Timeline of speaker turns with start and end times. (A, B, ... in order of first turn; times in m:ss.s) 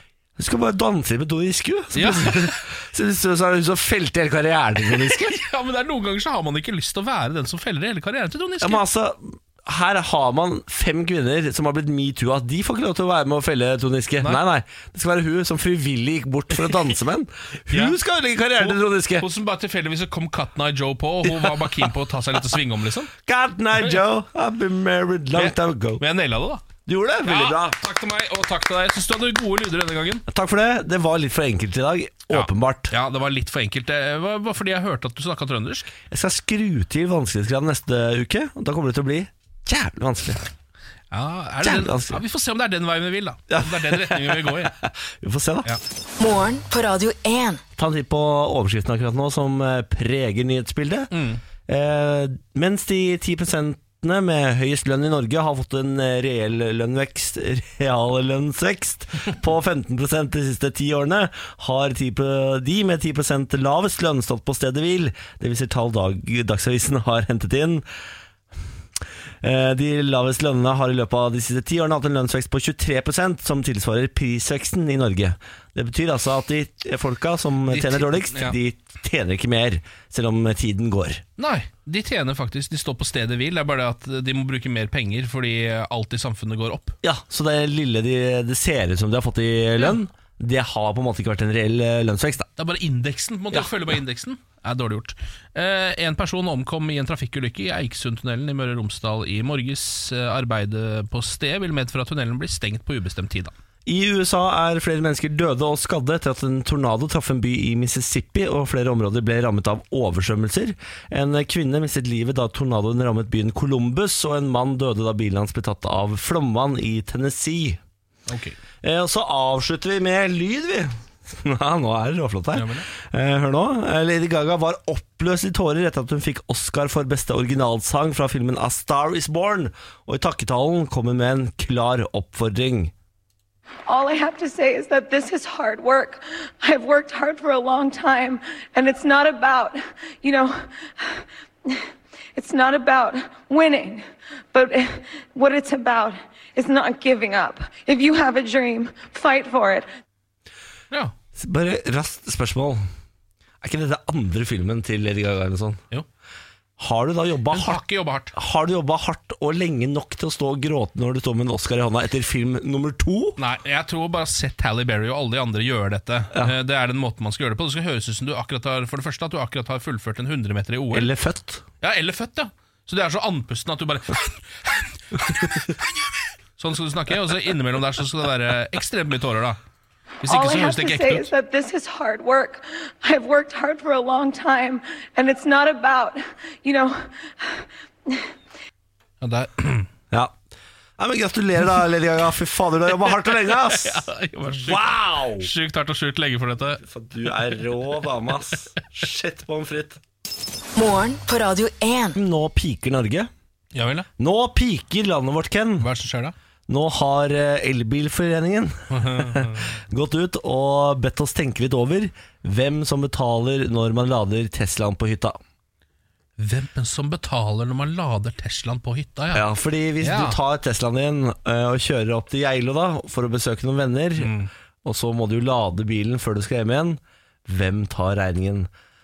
0:00.4-0:05.4 A
0:01.9-0:02.6 B
0:04.8-0:08.8 B
0:08.6-0:19.3 A
0:17.7-0:18.0 B
0:18.6-0:23.1 B
0:21.2-0:21.9 A
0:23.2-0:26.0 A
0:25.3-0:26.6 B
0:26.8-0:27.8 A
0:27.2-0:30.2 B
0:30.3-0:32.9 A
0:32.3-0:35.9 B
0:36.1-0:40.4 A
0:41.1-0:44.7 B
0:41.6-0:42.2 A
0:43.5-0:45.7 A
0:46.2-0:47.6 C
0:47.8-0:51.1 A
0:51.1-0:51.4 B
0:51.6-1:07.8 A
1:09.4-1:21.2 A
1:17.7-1:18.6 B
1:21.4-1:27.0 B
1:27.0-1:32.5 A
1:32.6-1:43.5 B
1:43.8-1:57.8 A
1:58.3-1:58.6 B
1:58.8-2:12.9 A
2:02.5-2:02.9 B
2:13.9-2:29.9 D
2:31.4-2:32.8 A
2:33.6-2:35.8 A
2:36.8-2:37.8 A
2:37.5-2:38.3 B
2:38.3-2:43.4 A
2:43.4-2:51.1 B
2:50.9-2:51.6 A
2:51.8-2:55.8 B
2:56.6-2:59.6 B
3:00.2-3:01.3 B
3:00.2-3:08.3 D
3:09.2-3:09.9 B
3:11.0-3:15.5 A
3:13.0-3:16.8 B
3:16.8-3:20.0 A
3:17.5-3:17.8 B
3:20.8-3:22.2 C
3:22.2-3:23.3 A
3:23.7-3:24.1 B
3:24.2-3:25.9 A
3:25.8-3:26.3 B
3:26.7-3:35.4 A
3:28.9-3:29.7 B
3:36.4-3:39.4 B
3:39.3-3:48.7 A
3:40.0-3:40.4 B
3:44.2-3:44.5 B